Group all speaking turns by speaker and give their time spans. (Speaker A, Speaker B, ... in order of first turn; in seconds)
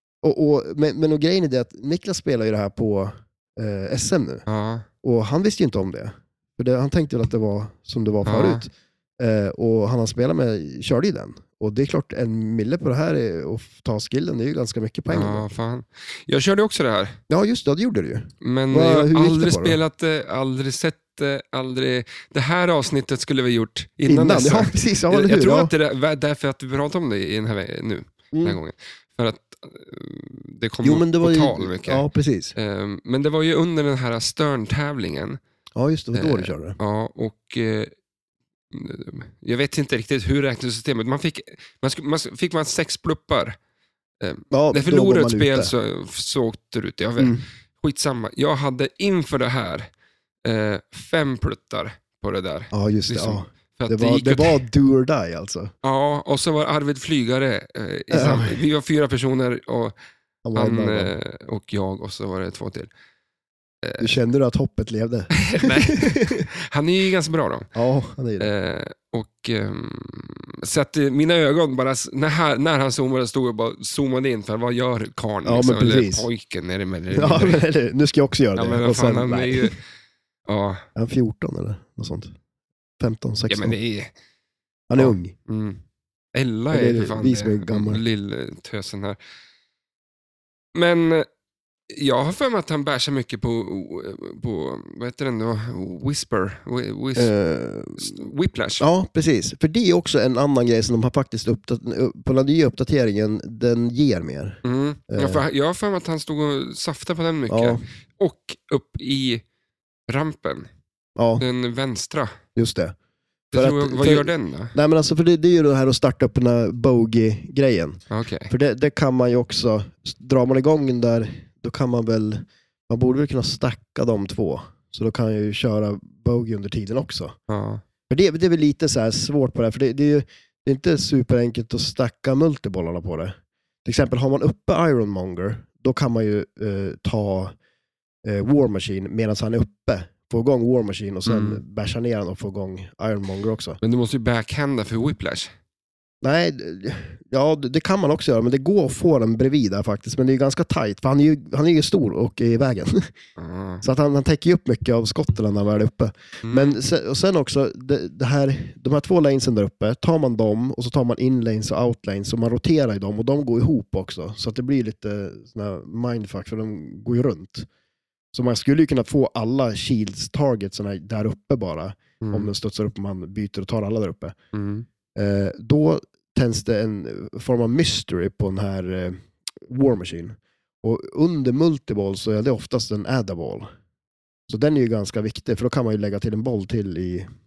Speaker A: 0.2-4.4, 5.0-15.4, 17.3-19.8, 24.1-25.7, 28.3-28.6, 30.8-32.5, 35.8-36.8, 44.5-45.7, 47.2-47.4, 52.7-55.7, 58.1-58.6, 60.4-61.1, 64.0-66.4, 67.7-68.5, 75.4-76.3, 77.1-79.7, 81.0-82.3, 83.0-83.7, 84.9-85.3, 86.7-88.0, 97.2-98.2, 98.8-105.4, 107.5-107.8, 111.2-111.4, 112.5-112.9, 113.5-127.3, 128.1-137.5, 138.2-143.8, 146.2-153.1, 153.8-167.7, 168.3-174.3, 175.1-183.7, 184.5-187.3
Speaker B: 4.5-4.8, 8.2-8.6, 15.1-17.2, 18.4-32.0, 32.5-35.4, 36.1-37.9, 38.7-43.6, 44.2-49.9, 50.4-54.6, 55.8-60.0, 60.5-62.9, 63.8-64.1, 65.3-67.7, 68.4-77.6, 78.5-79.8, 80.5-80.8, 83.5-84.1, 85.0-85.8, 86.3-89.2, 90.7-91.3, 91.9-97.3, 98.0-98.9, 104.6-109.4, 110.1-110.7, 111.4-112.4, 113.5-114.7, 118.1-118.5, 127.5-127.8, 141.2-141.6, 143.8-145.5, 153.4-153.8, 156.4-156.8, 172.2-172.5, 174.5-174.8